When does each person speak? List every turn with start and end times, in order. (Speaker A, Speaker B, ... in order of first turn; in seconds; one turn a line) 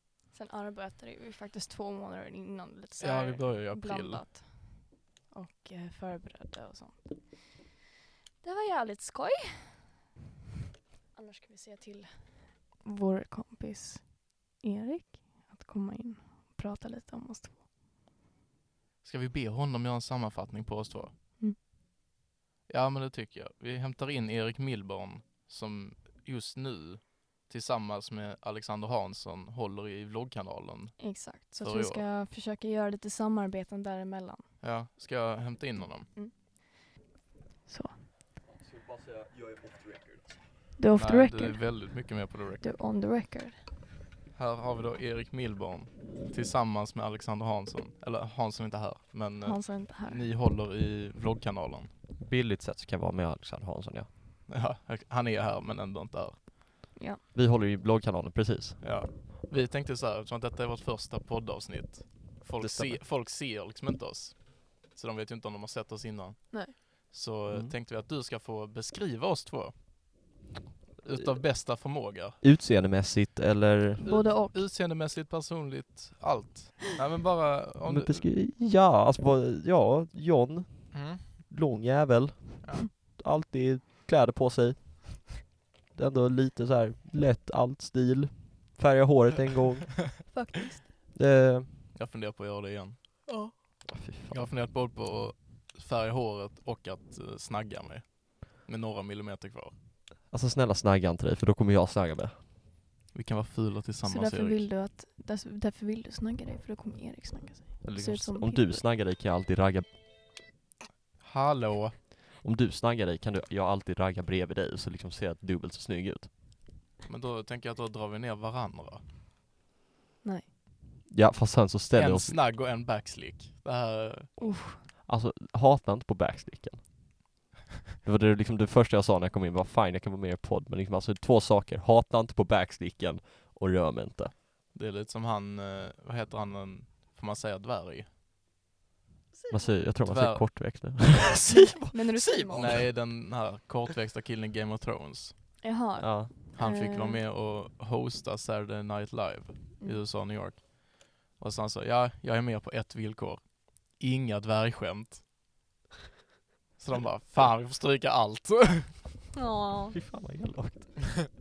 Speaker A: 0.3-7.6
Speaker B: 3.0-4.3
Speaker A: 8.4-9.9
Speaker A: 11.1-17.6
Speaker B: 19.0-21.1
Speaker B: 22.7-32.0
Speaker A: 31.0-34.5
Speaker B: 34.6-36.1
Speaker A: 36.1-36.9
Speaker A: 37.7-38.0
Speaker C: 38.6-40.5
Speaker A: 40.8-41.7
Speaker B: 41.0-42.7
Speaker A: 42.6-43.7
Speaker B: 44.3-51.9
Speaker A: 49.4-50.3
Speaker C: 52.2-54.1
Speaker B: 54.5-56.5
Speaker A: 57.0-57.2
Speaker C: 57.3-58.8
Speaker B: 58.8-69.8
Speaker C: 62.6-63.0
Speaker A: 66.5-66.8
Speaker C: 67.5-67.8
Speaker B: 71.0-72.4
Speaker C: 72.4-74.0
Speaker B: 74.0-78.3
Speaker A: 74.0-74.7
Speaker C: 77.8-90.2
Speaker B: 80.9-81.2
Speaker B: 82.6-82.9
Speaker A: 90.3-90.9
Speaker C: 91.1-91.9
Speaker B: 91.9-93.3
Speaker A: 93.3-93.5
Speaker C: 93.9-94.5
Speaker B: 94.3-99.8
Speaker C: 100.3-102.4
Speaker B: 103.1-104.7
Speaker A: 104.0-108.8
Speaker C: 107.8-110.0
Speaker B: 111.2-112.0
Speaker C: 112.4-116.3
Speaker B: 117.1-119.0
Speaker C: 121.1-122.4
Speaker B: 122.0-124.3
Speaker A: 124.4-124.8
Speaker C: 125.0-126.9
Speaker C: 128.0-134.3
Speaker B: 134.7-138.1
Speaker A: 139.3-139.9
Speaker C: 139.5-142.9
Speaker B: 140.0-140.9
Speaker A: 141.5-142.8
Speaker B: 142.5-145.6
Speaker A: 145.6-147.2
Speaker C: 146.0-146.3
Speaker B: 146.5-155.2
Speaker B: 156.8-159.2
Speaker A: 159.4-160.0
Speaker C: 159.9-161.2